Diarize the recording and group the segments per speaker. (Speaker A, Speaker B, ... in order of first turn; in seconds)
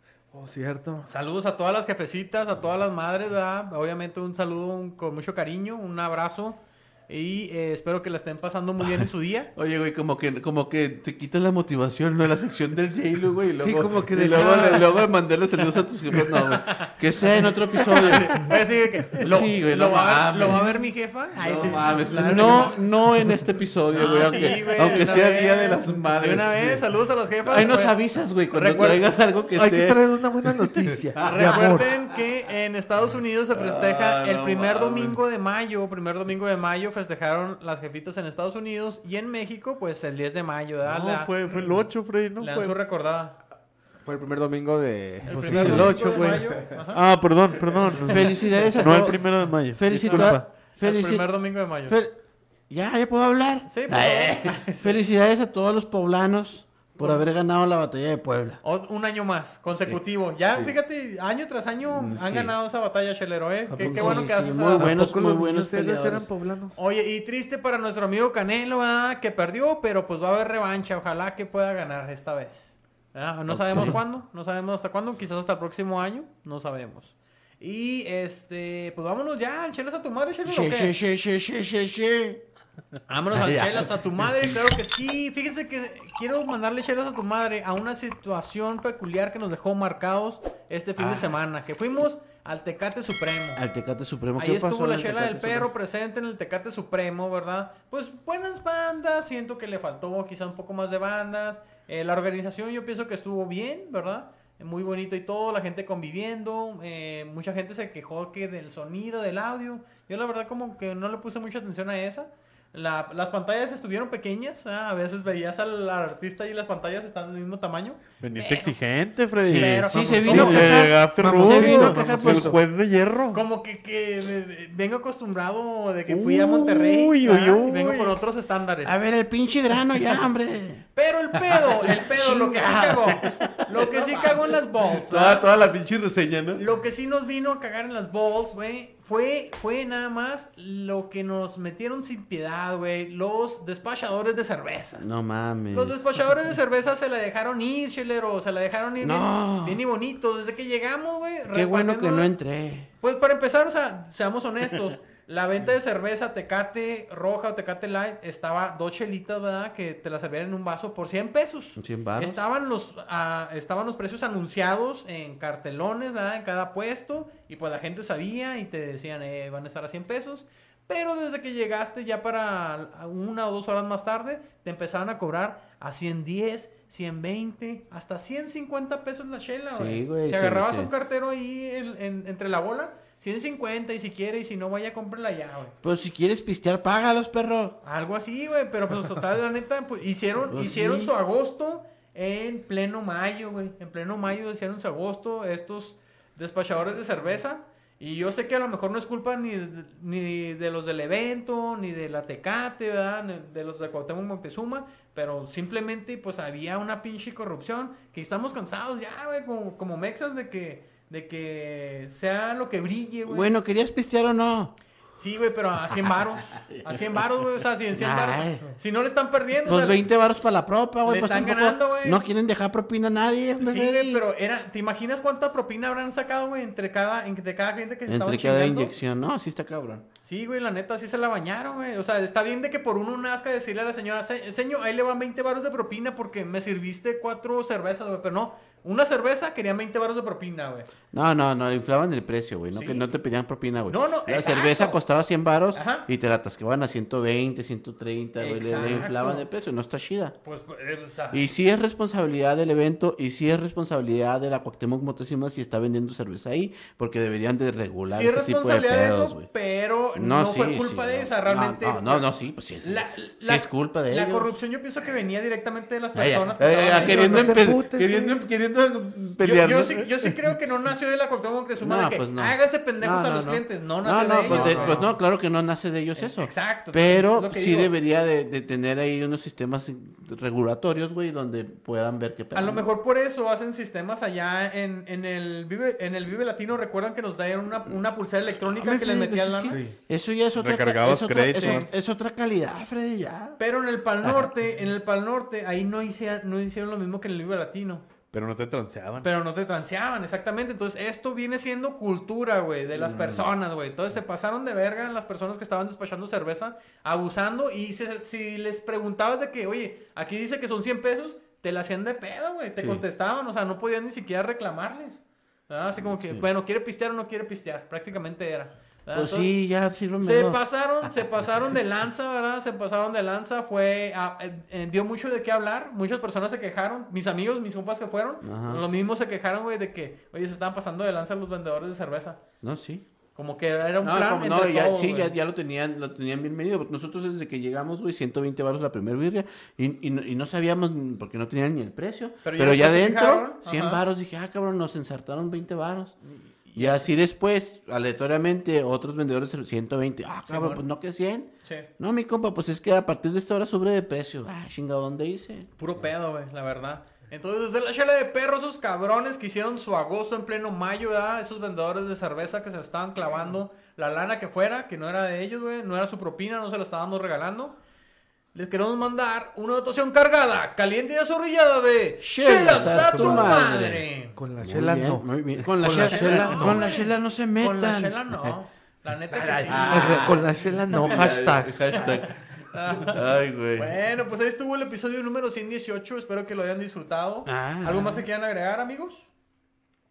Speaker A: 0.3-1.1, 13.6-15.1, 29.6-31.9, 45.4-46.5, 48.1-48.8, 49.9-50.4, 63.7-66.8, 120.0-122.6, 267.0-268.5, 274.5-275.0, 289.7-290.0, 372.4-373.6, 374.4-376.9, 379.4-382.1
Speaker B: 1.1-9.5, 16.6-16.9, 17.7-22.8, 23.9-29.1, 31.2-41.9, 42.4-43.4, 45.3-47.0, 50.0-52.0, 53.7-55.0, 57.0-57.3, 58.6-65.0, 66.8-81.0, 83.1-93.6, 94.4-118.8, 119.4-120.7, 123.3-129.1, 130.9-135.4, 136.6-145.1, 145.7-152.3, 153.0-185.8, 187.8-213.5, 215.2-220.1, 221.1-222.2, 223.6-228.9, 230.2-240.9, 242.7-243.1, 243.9-245.0, 245.7-246.1, 248.4-249.5, 250.4-251.4, 258.1-262.3, 262.8-267.6, 269.4-275.2, 276.2-277.9, 282.5-289.8, 291.6-291.9, 293.6-298.1, 299.2-319.6, 320.2-332.4, 333.4-335.4, 342.4-344.0, 346.2-347.1, 350.5-350.8, 355.8-367.8, 368.5-374.4, 375.9-380.4, 381.9-383.2, 383.8-389.3
Speaker C: 9.6-18.6, 19.2-26.8, 27.5-32.1, 33.5-35.2, 48.0-51.3, 51.9-52.2, 52.7-58.6, 60.5-60.8, 61.9-62.5, 63.8-66.3, 73.5-74.0, 80.5-82.4, 91.0-91.4, 93.6-95.7, 119.4-122.5, 126.3-126.6, 128.8-136.6, 145.0-146.0, 149.0-149.8, 151.5-152.9, 161.8-162.4, 179.7-180.9, 185.8-187.8, 190.5-191.1, 213.3-214.7, 216.0-217.0, 217.9-218.7, 219.7-224.2, 228.1-230.1, 241.1-250.4, 251.3-259.5, 260.1-264.6, 266.1-270.1, 271.8-282.9, 288.7-293.6, 294.2-294.5, 302.9-303.5, 312.8-313.0, 316.0-316.5, 319.1-320.6, 328.4-328.8, 332.6-333.1, 334.0-346.1, 346.8-355.7, 372.2-374.1, 374.6-378.6, 379.6-382.4, 382.9-384.0, 387.4-388.3
Speaker D: 40.9-42.8, 45.3-50.4, 118.2-123.5, 126.2-128.2, 290.6-291.9, 298.3-299.3
Speaker E: 44.0-46.0